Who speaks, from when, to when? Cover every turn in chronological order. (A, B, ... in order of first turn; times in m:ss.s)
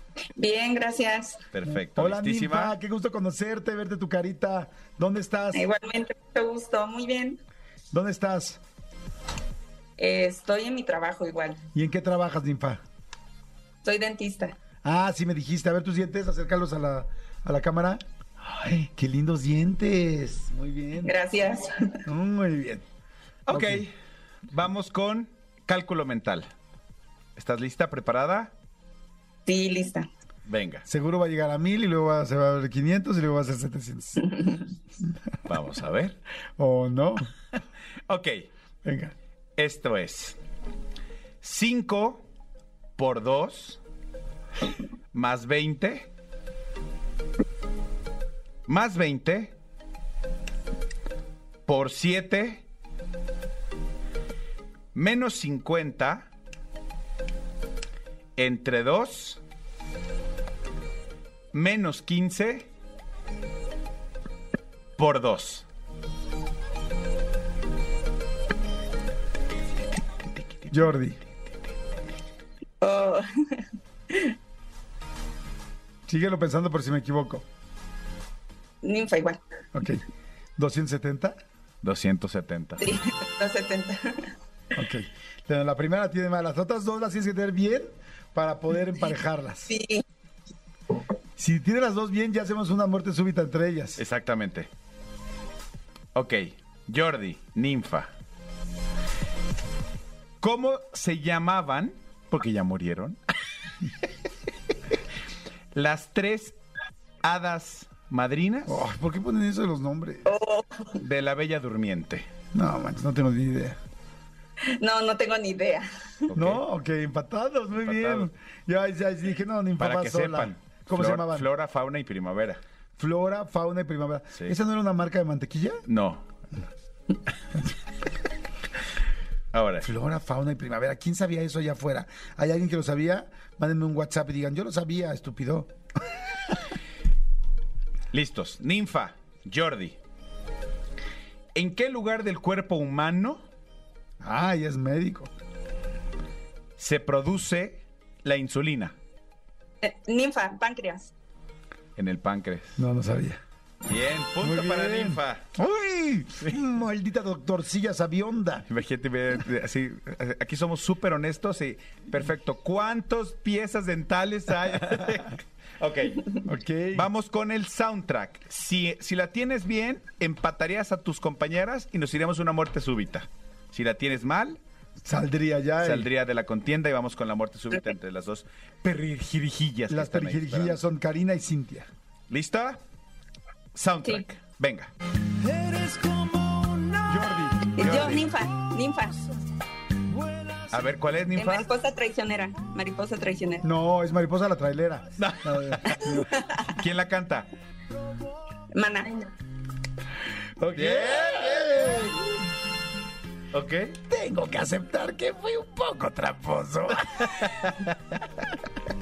0:00.4-0:01.4 A
0:01.5-0:02.7 B
0:01.7-0:05.7 C
0:05.5-0:07.4 A
0:07.9-0:08.6 C
0:10.0-0:11.6 A
0:11.7-0:12.8 C
0:13.8-0:14.6 A
0:14.8-0:21.1 C
0:21.0-0:21.7 A
0:22.0-0:22.8 C
0:23.5-0:23.9 B
0:23.5-0:23.8 C
0:24.5-0:26.5 B
0:27.4-0:28.5 B
0:29.4-0:30.1 A
0:30.5-0:30.8 B
0:30.9-0:34.5 C
0:35.4-0:36.2 B
0:36.6-0:37.3 C
0:38.1-0:38.4 B
0:38.8-0:39.1 C
0:39.6-0:40.4 B
0:41.4-0:42.2 B
0:43.0-0:43.8 B
0:45.1-0:46.1 B
0:48.7-0:49.5 B
0:51.6-0:52.6 B
0:54.9-0:56.3 B
0:58.4-0:59.4 B
1:01.5-1:02.7 B
1:05.0-1:05.6 B
1:10.7-1:11.2 C
1:12.8-1:14.3 A
1:16.0-1:17.4 C
1:18.8-1:19.4 A
1:19.7-1:20.0 C
1:20.6-1:21.4 C
1:21.8-1:22.8 B
1:22.8-1:24.3 A
1:24.7-1:29.7 C
1:29.7-1:30.0 A
1:31.4-1:34.0 C
1:34.0-1:34.7 B
1:36.1-1:38.1 B
1:40.4-1:43.2 B
1:45.7-1:46.6 B
1:47.2-1:48.8 B
1:48.7-1:50.3 C
1:50.3-1:50.9 A
1:51.0-1:52.2 B
1:52.5-1:53.8 C
1:54.7-1:55.9 A
1:56.3-1:56.6 B
1:56.3-2:01.5 C
1:57.8-1:58.3 B
1:59.8-2:02.6 B
2:03.0-2:05.8 C
2:05.9-2:06.2 B
2:09.5-2:09.9 B
2:09.8-2:15.7 C
2:18.1-2:20.0 B
2:21.5-2:23.4 B
2:24.2-2:25.3 C
2:26.8-2:28.9 B
2:29.8-2:31.1 A
2:32.0-2:32.8 B
2:32.8-2:33.4 C
2:33.9-2:35.5 B
2:34.4-2:38.6 C
2:38.7-2:46.3 B
2:46.4-2:47.1 C
2:46.9-2:54.6 B
2:55.0-2:56.1 C
2:55.8-3:00.8 B
2:59.9-3:01.9 C
3:02.3-3:02.8 B
3:03.7-3:04.9 B
3:05.6-3:06.1 C
3:07.0-3:08.2 C
3:07.8-3:09.2 A
3:07.8-3:08.2 B
3:10.7-3:11.7 B
3:11.4-3:13.6 A
3:13.6-3:16.3 C
3:15.2-3:17.5 B
3:18.7-3:19.1 A
3:20.6-3:22.3 C
3:20.7-3:22.1 B
3:23.5-3:23.9 B
3:24.1-3:27.6 C
3:27.4-3:27.7 B